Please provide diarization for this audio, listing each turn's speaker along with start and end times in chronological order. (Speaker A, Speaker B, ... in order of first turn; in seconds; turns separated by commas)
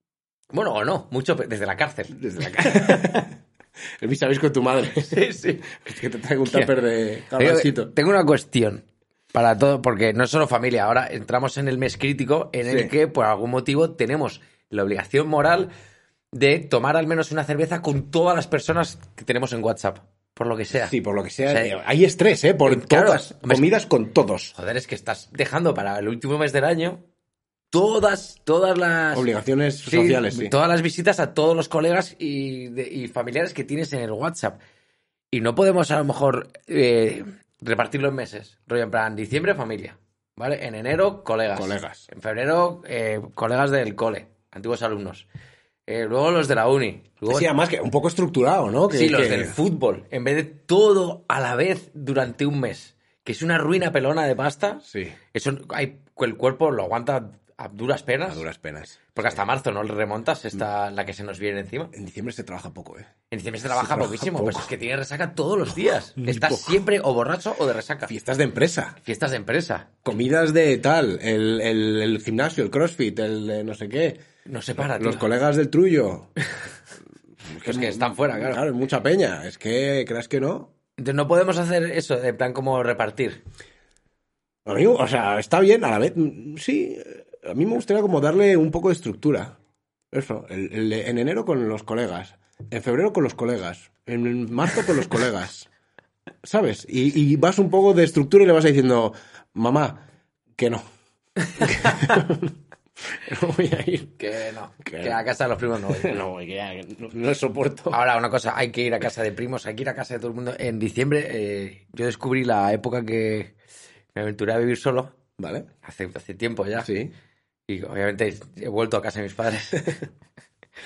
Speaker A: 0.5-3.3, Speaker B: 2.1-3.3, Speaker B: 4.0-5.2, Speaker A: 5.0-5.7, Speaker B: 5.7-7.9, Speaker A: 6.5-6.7, Speaker A: 7.4-15.7, Speaker B: 12.6-12.9, Speaker A: 16.3-20.9, Speaker B: 20.7-24.5, Speaker A: 21.5-21.8, Speaker A: 22.6-23.7, Speaker A: 24.5-27.0, Speaker A: 27.7-29.3, Speaker B: 29.1-30.5, Speaker A: 29.9-34.6, Speaker A: 35.3-45.3, Speaker B: 41.5-42.1, Speaker A: 45.9-47.5, Speaker B: 47.3-49.6, Speaker A: 48.9-58.5, Speaker B: 54.9-55.2, Speaker B: 58.3-59.4, Speaker A: 59.1-61.9, Speaker B: 61.9-63.1, Speaker A: 63.3-68.1, Speaker B: 63.7-64.7, Speaker B: 66.2-66.8, Speaker B: 68.1-69.0, Speaker A: 69.0-70.0, Speaker B: 70.0-74.2, Speaker A: 74.5-75.3, Speaker B: 74.8-76.3, Speaker B: 77.5-80.7, Speaker A: 77.6-78.6, Speaker A: 81.0-83.4, Speaker B: 84.7-89.6, Speaker B: 90.1-95.7, Speaker B: 96.4-100.0, Speaker B: 100.6-100.8, Speaker B: 101.6-102.5, Speaker A: 101.6-102.0, Speaker B: 103.1-104.2, Speaker A: 104.2-106.2, Speaker B: 104.8-105.2, Speaker B: 105.9-108.0, Speaker A: 107.9-113.5, Speaker A: 114.1-115.2, Speaker B: 115.4-115.7, Speaker A: 115.8-116.9, Speaker B: 116.8-117.1, Speaker A: 117.7-120.0